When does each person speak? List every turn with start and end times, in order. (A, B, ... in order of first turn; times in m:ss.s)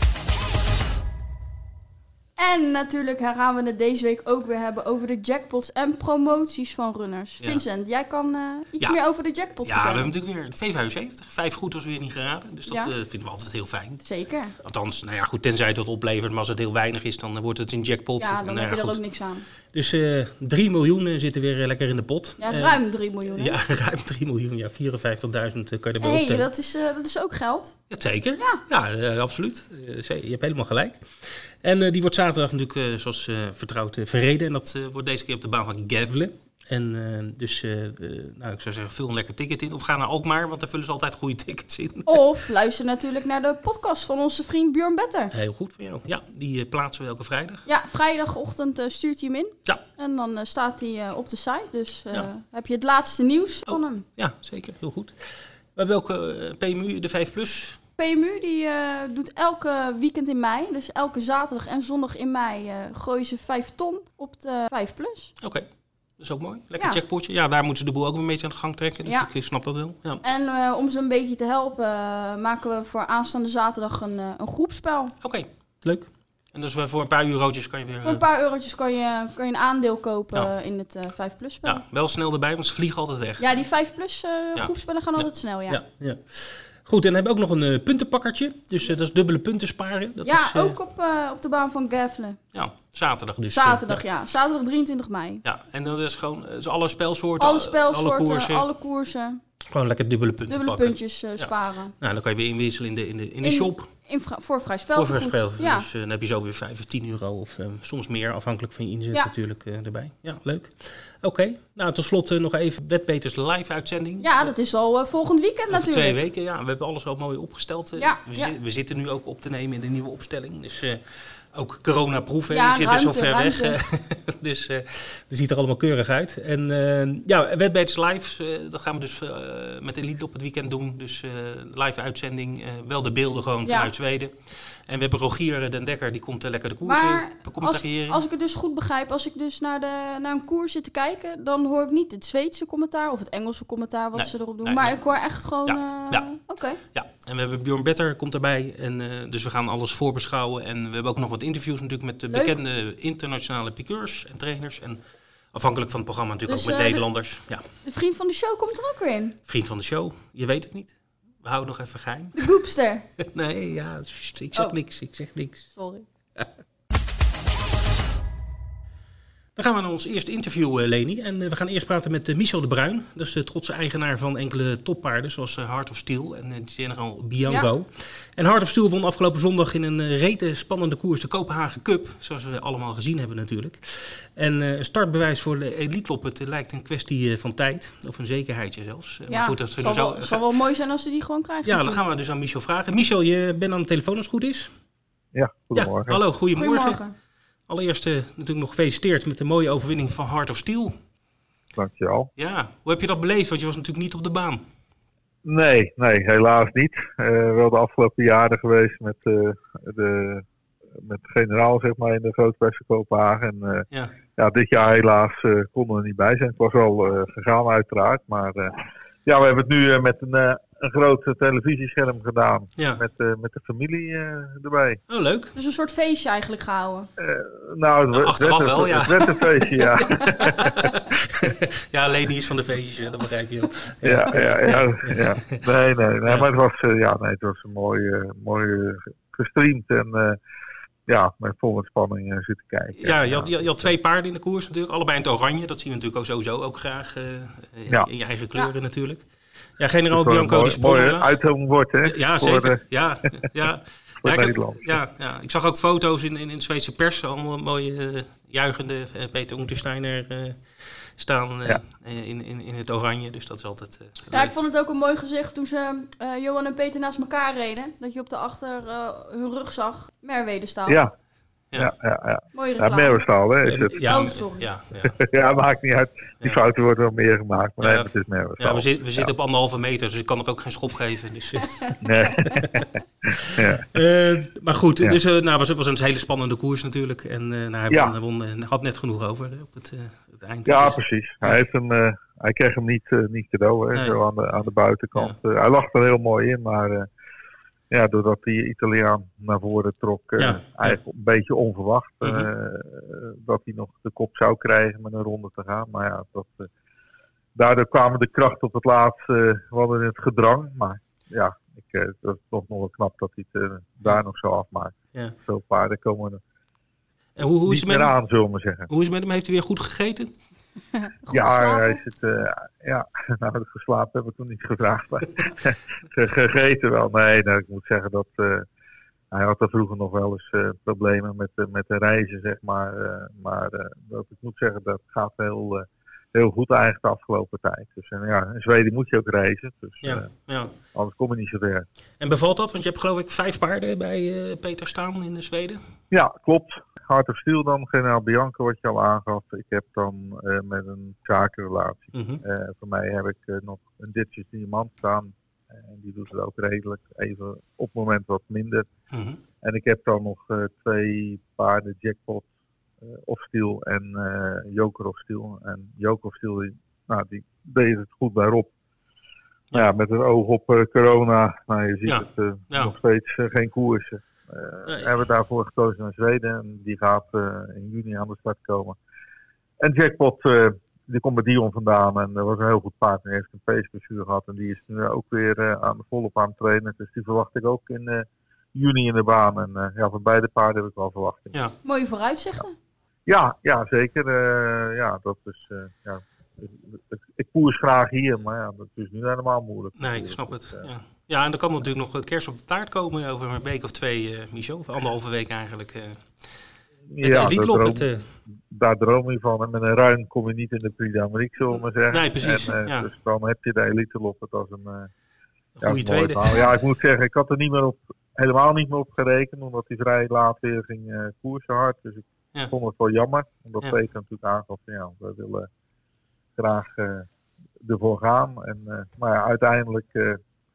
0:02.4-0:10.1 A
0:09.6-0:14.0 B
0:14.0-0:14.6 A
0:14.6-0:19.0 B
0:18.2-0:19.4 A
0:19.7-0:26.5 B
0:22.4-0:23.6 A
0:26.0-0:27.8 A
0:27.9-0:42.2 B
0:42.1-0:45.3 A
0:45.3-0:47.6 B
0:47.6-0:54.0 A
0:53.7-0:57.8 B
0:58.0-1:05.3 A
1:06.2-1:10.2 B
1:10.2-1:15.1 A
1:15.2-1:18.2 B
1:18.0-1:21.8 A
1:21.6-1:23.5 B
1:23.4-1:25.8 A
1:24.6-1:30.8 B
1:30.2-1:32.4 A
1:32.5-1:34.0 B
1:33.5-1:35.4 A
1:35.4-1:38.6 B
1:37.4-1:39.4 A
1:39.7-1:43.9 B
1:40.5-1:41.9 A
1:43.4-1:45.8 A
1:44.9-1:54.5 B
1:54.2-1:56.2 A
1:55.7-2:18.2 B
1:58.0-1:58.5 A
2:02.5-2:03.8 A
2:13.6-2:13.9 A
2:16.8-2:26.8 A
2:24.1-2:25.0 B
2:25.6-2:35.0 B
2:32.3-2:32.5 A
2:35.5-2:37.6 B
2:36.5-2:37.0 A
2:37.8-2:39.4 A
2:39.4-2:42.6 B
2:42.4-2:43.0 A
2:43.2-2:45.7 B
2:45.7-2:46.0 A
2:49.6-3:10.4 B
3:09.3-3:12.0 A
3:11.6-3:14.7 B
3:15.3-3:16.2 C
3:15.7-3:17.0 B
3:16.6-3:17.1 A
3:17.7-3:21.0 B
3:21.7-3:22.3 C
3:22.4-3:24.6 B
3:25.4-3:30.4 C
3:31.0-3:38.7 C
3:39.2-3:45.0 C
3:45.1-3:45.5 B
3:45.5-3:47.1 A
3:47.2-3:50.9 C
3:48.1-3:50.1 B
3:50.8-3:55.6 B
3:54.0-4:00.4 C
4:01.1-4:03.9 C
4:03.0-4:09.2 B
4:09.8-4:11.3 B
4:10.1-4:12.8 C
4:12.0-4:24.5 B
4:14.2-4:15.0 C
4:24.3-4:31.0 A
4:30.9-4:31.1 C
4:31.7-4:34.0 C
4:32.5-4:33.2 A
4:33.6-4:35.2 B
4:34.0-4:34.7 A
4:35.2-4:39.3 C
4:37.8-4:38.1 B
4:38.6-4:41.9 B
4:42.0-4:42.8 C
4:43.4-4:43.8 C
4:43.5-4:51.6 B
4:50.6-4:57.1 C
4:57.9-5:06.7 C
5:00.4-5:01.0 B
5:02.2-5:02.5 B
5:07.5-5:16.4 C
5:17.4-5:18.2 B
5:17.6-5:18.9 C
5:18.9-5:20.3 B
5:20.9-5:22.0 A
5:21.3-5:28.6 C
5:29.3-5:40.3 C
5:40.0-5:40.7 B
5:40.9-5:41.8 C
5:42.2-5:45.8 B
5:46.1-5:58.9 C
5:52.1-5:52.4 B
5:59.1-5:59.4 B
5:59.6-6:02.5 C
6:03.0-6:08.7 C
6:09.7-6:19.0 C
6:12.0-6:12.9 B
6:14.8-6:15.1 B
6:19.8-6:31.6 C
6:31.8-6:32.7 A
6:33.3-6:40.9 C
6:40.0-6:46.5 B
6:47.1-6:48.1 C
6:47.2-6:48.3 B
6:48.7-6:55.1 C
6:52.1-6:53.1 B
6:55.8-6:56.7 B
6:55.8-7:05.7 C
7:06.6-7:07.3 C
7:07.8-7:10.4 C